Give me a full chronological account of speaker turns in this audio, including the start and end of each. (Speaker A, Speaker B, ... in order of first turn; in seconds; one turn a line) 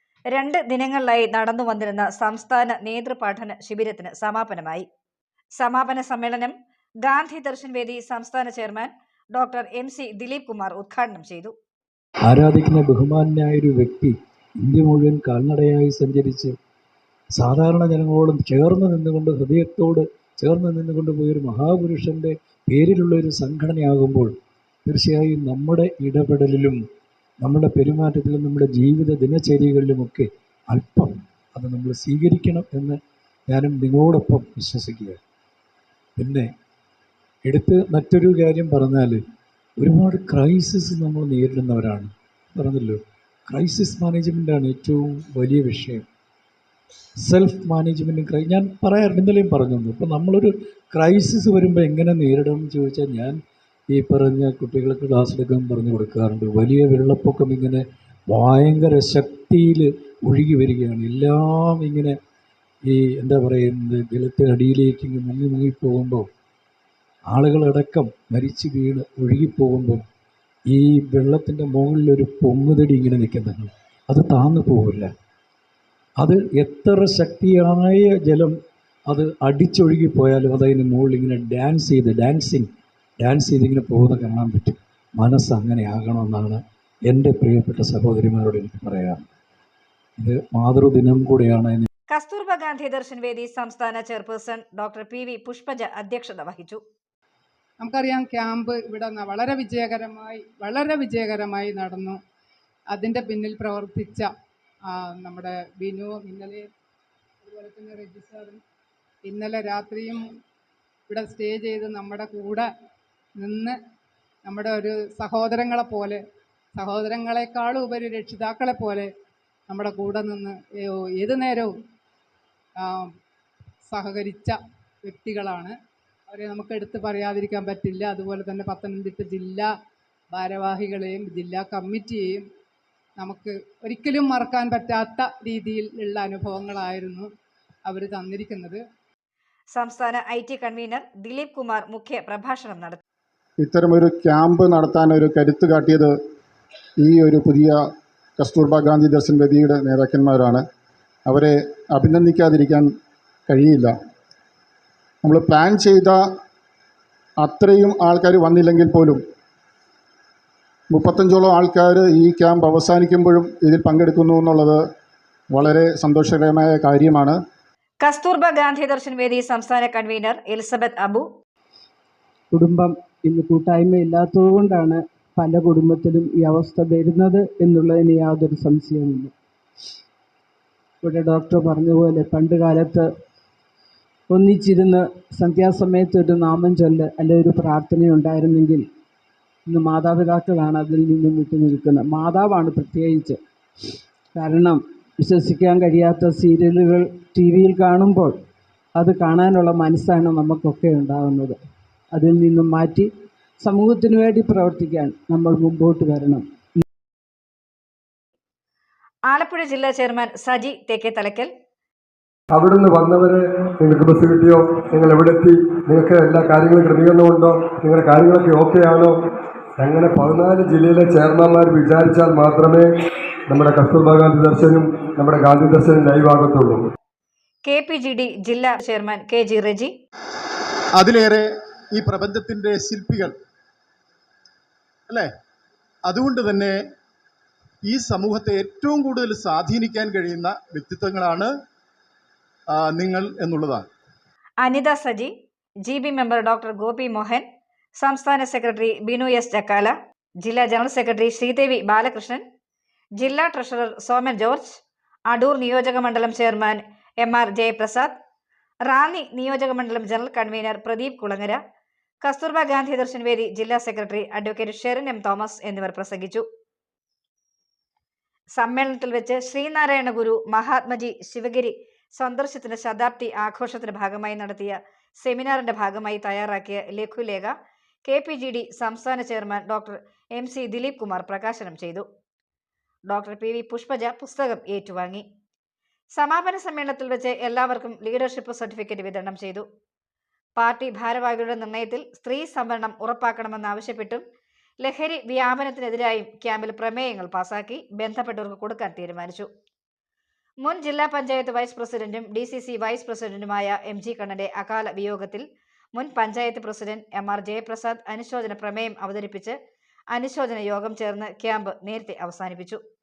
Speaker A: 0.3-4.8
Speaker A: 5.6-11.5
Speaker B: 12.2-16.5
Speaker B: 17.3-24.3
Speaker B: 24.9-26.8
Speaker B: 27.4-33.0
Speaker B: 33.5-35.2
Speaker B: 36.2-36.5
Speaker B: 37.5-39.2
Speaker B: 39.8-46.0
Speaker B: 47.2-53.4
Speaker B: 53.9-62.1
Speaker B: 62.9-66.3
Speaker B: 67.3-70.0
Speaker B: 70.7-75.1
Speaker B: 76.2-78.5
Speaker B: 79.1-82.7
Speaker B: 83.2-89.3
Speaker B: 90.2-91.9
Speaker A: 92.1-96.8
Speaker C: 97.8-102.2
Speaker C: 102.9-104.3
Speaker C: 104.9-106.6
Speaker C: 107.4-108.6
Speaker C: 109.2-110.2
Speaker C: 111.1-112.7
Speaker C: 113.4-113.8
Speaker C: 114.4-116.2
Speaker C: 116.8-119.1
Speaker C: 119.7-121.7
Speaker C: 122.8-123.1
Speaker C: 123.9-125.7
Speaker C: 126.3-129.7
Speaker C: 130.3-132.4
Speaker C: 133.2-137.3
Speaker C: 137.9-138.8
Speaker A: 139.7-143.0
Speaker D: 143.6-146.1
Speaker D: 147.0-147.8
Speaker D: 148.4-150.6
Speaker D: 151.3-152.9
Speaker D: 153.5-153.9
Speaker D: 155.2-156.2
Speaker D: 157.4-159.2
Speaker D: 160.9-164.8
Speaker D: 165.5-167.4
Speaker A: 168.0-171.3
Speaker E: 172.5-179.3
Speaker E: 181.0-183.1
Speaker E: 184.3-188.8
Speaker E: 189.7-193.4
Speaker E: 194.3-198.3
Speaker E: 198.9-201.6
Speaker E: 202.1-206.4
Speaker A: 209.3-211.5
Speaker F: 212.5-219.1
Speaker F: 219.8-222.9
Speaker F: 223.5-226.8
Speaker A: 227.7-229.9
Speaker G: 231.0-233.3
Speaker G: 236.1-236.8
Speaker G: 237.9-241.5
Speaker G: 242.7-243.8
Speaker A: 244.6-245.3
Speaker A: 245.8-247.4
Speaker A: 248.0-252.4
Speaker A: 253.2-258.1
Speaker A: 258.9-261.6
Speaker A: 262.2-266.4
Speaker A: 268.6-277.5
Speaker A: 278.1-282.1
Speaker A: 283.1-285.2
Speaker A: 286.2-289.6
Speaker A: 290.6-294.2
Speaker A: 294.8-299.5
Speaker A: 300.6-309.6
Speaker A: 310.1-312.8